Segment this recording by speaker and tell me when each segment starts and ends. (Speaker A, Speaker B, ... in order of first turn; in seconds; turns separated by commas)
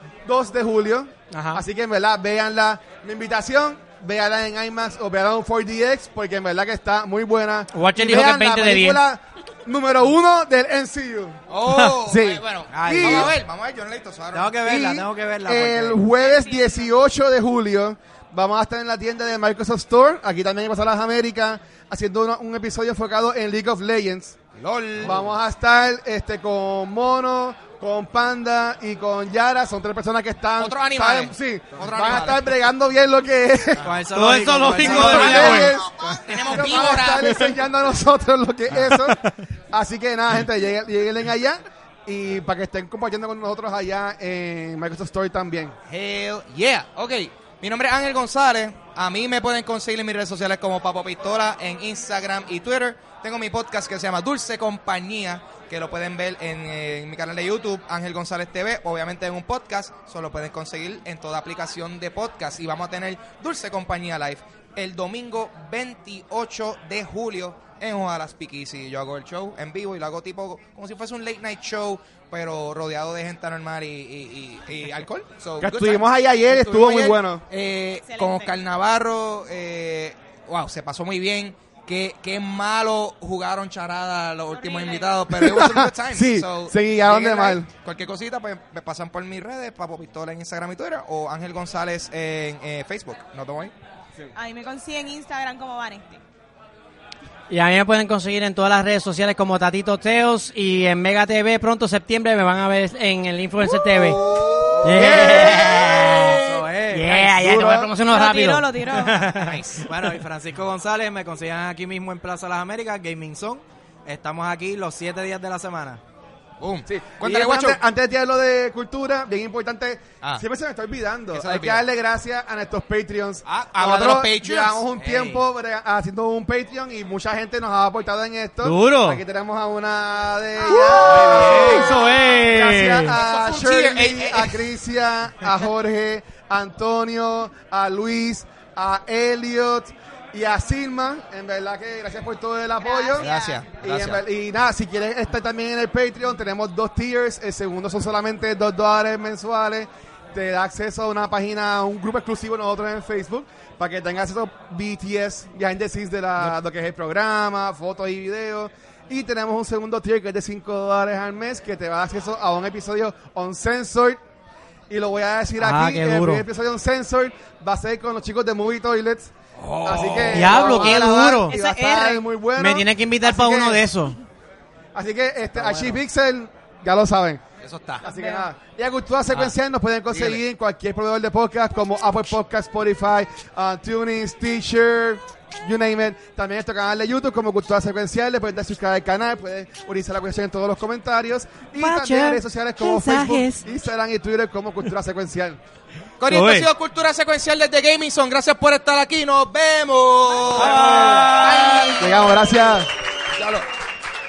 Speaker A: 0.2-13.3, Speaker B: 1.3-1.6, Speaker B: 7.7-9.0, Speaker C: 11.5-14.6, Speaker D: 12.7-13.3, Speaker D: 14.3-16.0, Speaker A: 14.6-24.4, Speaker E: 16.2-16.9, Speaker C: 24.6-25.2, Speaker A: 25.0-33.8, Speaker C: 30.6-32.5, Speaker D: 33.8-35.7, Speaker B: 34.1-35.7, Speaker A: 34.7-45.7, Speaker C: 34.8-37.4, Speaker B: 37.2-37.5, Speaker C: 45.9-93.7, Speaker A: 75.6-77.4, Speaker E: 78.0-78.5, Speaker E: 84.5-85.3, Speaker A: 85.3-87.7, Speaker E: 94.3-96.2, Speaker B: 97.5-104.2, Speaker C: 103.6-106.6, Speaker B: 104.8-109.6, Speaker A: 104.9-105.7, Speaker D: 106.4-107.3, Speaker A: 107.3-107.9, Speaker E: 108.0-109.3, Speaker C: 109.3-109.9, Speaker D: 109.8-116.0, Speaker C: 116.6-117.8, Speaker A: 116.9-164.2, Speaker C: 121.3-121.8, Speaker C: 123.5-124.8, Speaker D: 125.0-125.5, Speaker B: 128.6-129.2, Speaker B: 130.7-133.1, Speaker C: 131.1-132.0, Speaker C: 133.1-134.7, Speaker E: 142.8-143.6, Speaker C: 143.2-144.2, Speaker A: 164.9-173.8, Speaker B: 165.6-166.4, Speaker C: 169.5-170.8, Speaker B: 170.3-171.5, Speaker E: 171.0-172.2, Speaker B: 172.6-174.2, Speaker A: 174.9-177.4, Speaker C: 175.6-175.9, Speaker C: 177.6-178.0, Speaker E: 178.0-178.4, Speaker A: 178.0-195.6, Speaker C: 179.3-179.6, Speaker C: 180.1-180.4, Speaker B: 191.8-193.6, Speaker C: 196.2-202.3, Speaker B: 196.3-196.7, Speaker B: 200.6-202.0, Speaker D: 200.6-201.3, Speaker A: 202.0-202.9, Speaker C: 203.3-203.7